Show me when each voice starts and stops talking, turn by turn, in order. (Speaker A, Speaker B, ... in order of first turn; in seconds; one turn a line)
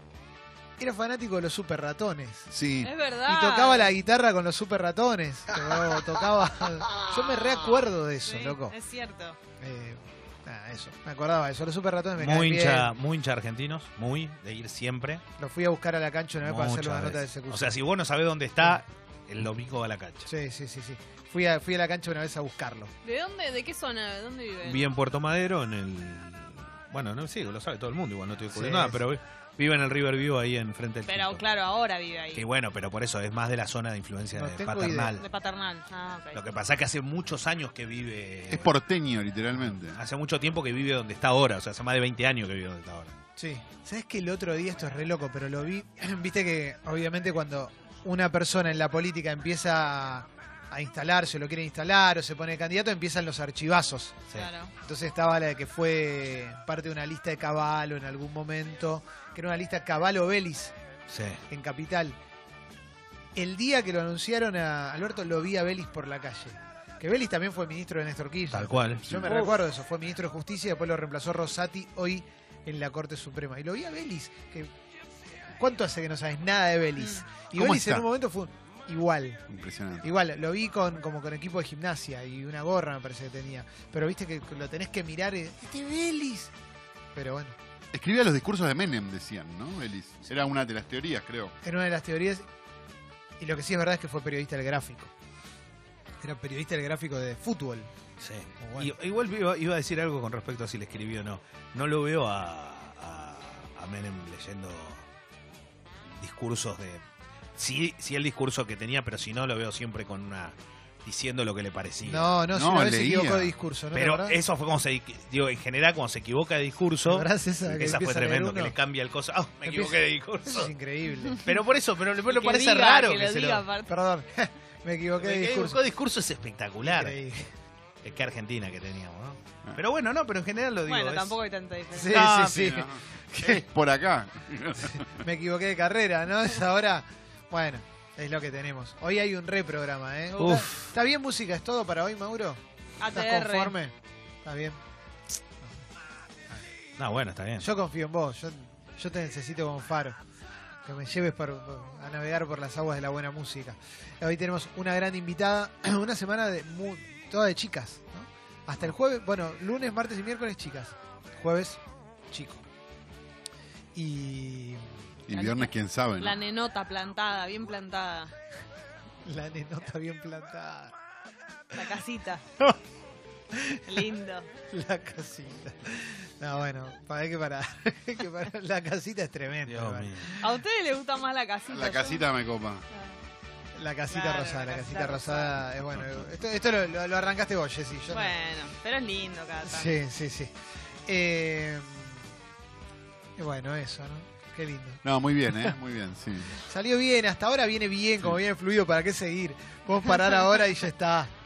Speaker A: 0.8-2.5
Speaker B: 2.5-2.9
Speaker C: 2.8-3.9
Speaker A: 3.2-8.7
Speaker C: 8.2-9.4
Speaker A: 9.6-12.9
Speaker D: 12.2-15.2
Speaker A: 15.4-17.8
Speaker D: 16.4-20.3
Speaker A: 20.3-22.9
Speaker C: 23.0-24.8
Speaker D: 24.6-31.4
Speaker A: 28.5-29.0
Speaker C: 31.1-32.4
Speaker D: 32.3-35.2
Speaker A: 34.3-35.1
Speaker C: 35.2-36.4
Speaker D: 36.3-38.7
Speaker B: 38.5-40.0
Speaker D: 39.9-43.1
Speaker A: 43.4-54.2
Speaker C: 54.3-54.7
Speaker A: 54.8-60.7
Speaker D: 61.1-61.4
Speaker A: 61.5-62.1
Speaker A: 63.3-74.7
Speaker D: 68.5-69.0
Speaker B: 69.0-69.4
Speaker A: 75.5-79.4
Speaker B: 77.5-78.0
Speaker B: 79.5-80.1
Speaker A: 80.0-86.5
Speaker A: 87.1-87.5
Speaker B: 87.9-91.5
Speaker A: 91.6-92.4
Speaker A: 93.4-95.1
Speaker A: 96.2-97.9
Speaker D: 98.2-105.0
Speaker A: 98.6-98.9
Speaker D: 106.2-107.0
Speaker D: 107.5-112.3
Speaker A: 112.0-114.4
Speaker B: 112.5-113.5
Speaker D: 113.9-120.7
Speaker A: 117.1-118.7
Speaker A: 119.6-121.4
Speaker D: 121.4-123.6
Speaker C: 122.3-123.9
Speaker A: 123.9-125.8
Speaker D: 125.2-127.1
Speaker A: 126.8-127.5
Speaker D: 128.0-131.3
Speaker C: 130.9-132.3
Speaker A: 131.9-133.6
Speaker D: 132.1-132.8
Speaker B: 132.5-135.2
Speaker A: 135.0-144.8
Speaker D: 140.4-140.9
Speaker C: 143.0-143.7
Speaker D: 147.0-147.7
Speaker A: 147.6-150.2
Speaker A: 150.8-162.6
Speaker A: 163.9-164.8
Speaker B: 165.3-166.4
Speaker C: 165.3-168.3
Speaker A: 169.2-170.9
Speaker C: 171.7-172.4
Speaker A: 173.5-174.0
Speaker C: 173.8-174.5
Speaker A: 174.7-180.6
Speaker D: 179.7-180.3
Speaker C: 180.4-182.2
Speaker B: 181.7-182.8
Speaker A: 183.7-188.3
Speaker C: 184.1-185.6
Speaker B: 185.9-186.3
Speaker C: 188.1-189.9
Speaker A: 189.6-190.5
Speaker A: 191.1-192.2
Speaker A: 193.4-195.0
Speaker B: 195.0-196.6
Speaker A: 196.6-201.3